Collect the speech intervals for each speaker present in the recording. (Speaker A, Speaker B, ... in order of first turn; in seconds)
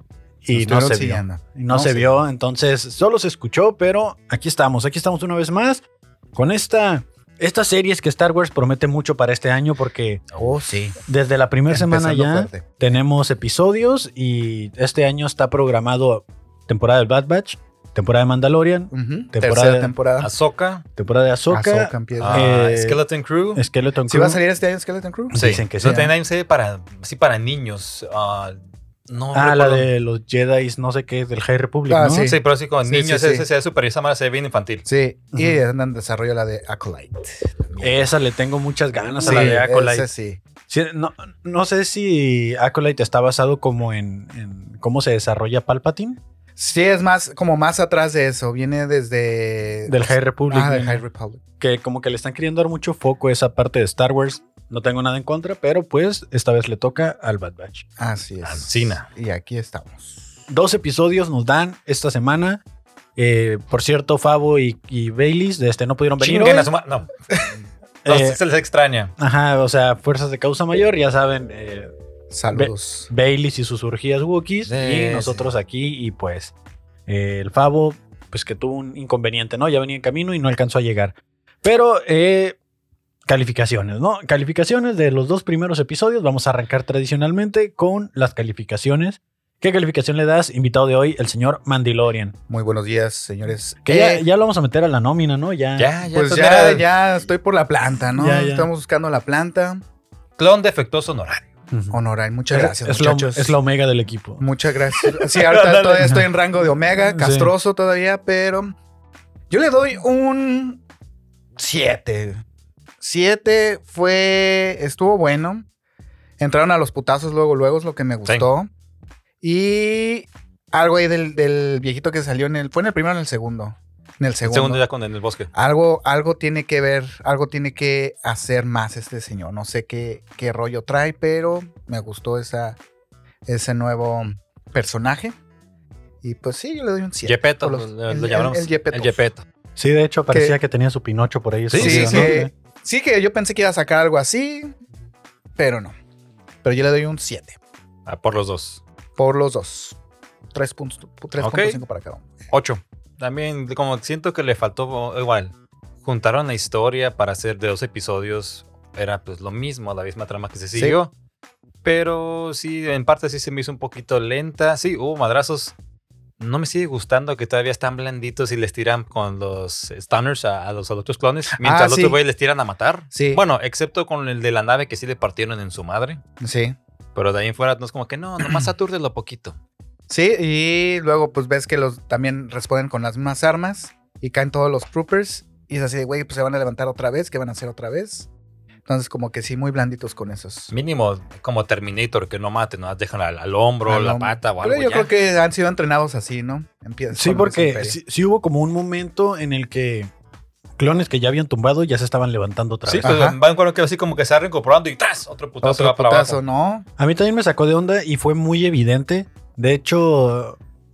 Speaker A: 0.4-10.2, 11.1-19.9, 21.0-23.0, 23.5-24.4, 25.3-26.0, 29.3-32.3, 35.3-35.6, 37.8-40.1, 40.7-46.2, 49.9-51.0, 51.6-57.8, 60.5-62.6, 63.1-66.7, 68.0-68.4, 69.2-71.9, 72.5-76.5, 77.1-82.6, 83.3-92.3, 93.8-95.9, 98.1-98.7, 101.7-102.0, 102.5-104.4, 106.0-106.3, 107.1-107.5, 139.8-142.5, 197.1-200.1, 200.8-203.1, 207.0-210.6
Speaker B: 0.5-2.1, 10.4-11.0, 11.7-12.8, 18.9-20.3, 21.5-22.5, 24.1-26.1, 31.9-33.5, 34.9-38.1, 39.1-40.4, 46.6-51.4, 58.0-60.4, 72.3-73.1, 92.5-94.2, 96.1-99.8, 101.9-103.5, 104.4-108.7, 109.5-110.8, 111.6-112.4, 113.0-115.7, 116.4-118.7, 119.4-124.8, 125.5-132.8, 133.4-135.3, 136.2-139.2, 140.3-140.6, 141.8-144.7, 145.6-145.9, 146.6-147.6, 149.2-150.0, 150.5-152.3, 171.6-172.2, 173.1-173.4, 176.4-176.8, 178.4-178.7, 180.1-188.3, 188.8-190.7, 193.8-198.0, 202.9-203.4, 205.6-206.8
Speaker C: 20.2-20.8, 22.2-23.6, 25.3-29.9, 32.2-34.8, 39.3-39.6, 58.4-59.1, 66.2-67.1, 68.0-69.1, 74.7-75.5, 95.8-96.9, 100.4-101.5, 104.9-106.2, 124.4-125.5, 137.2-139.4, 141.7-142.4, 148.1-148.8, 151.4-151.8, 152.5-161.1, 161.8-165.7, 166.4-176.2, 177.1-179.6, 190.7-195.1, 202.9-206.4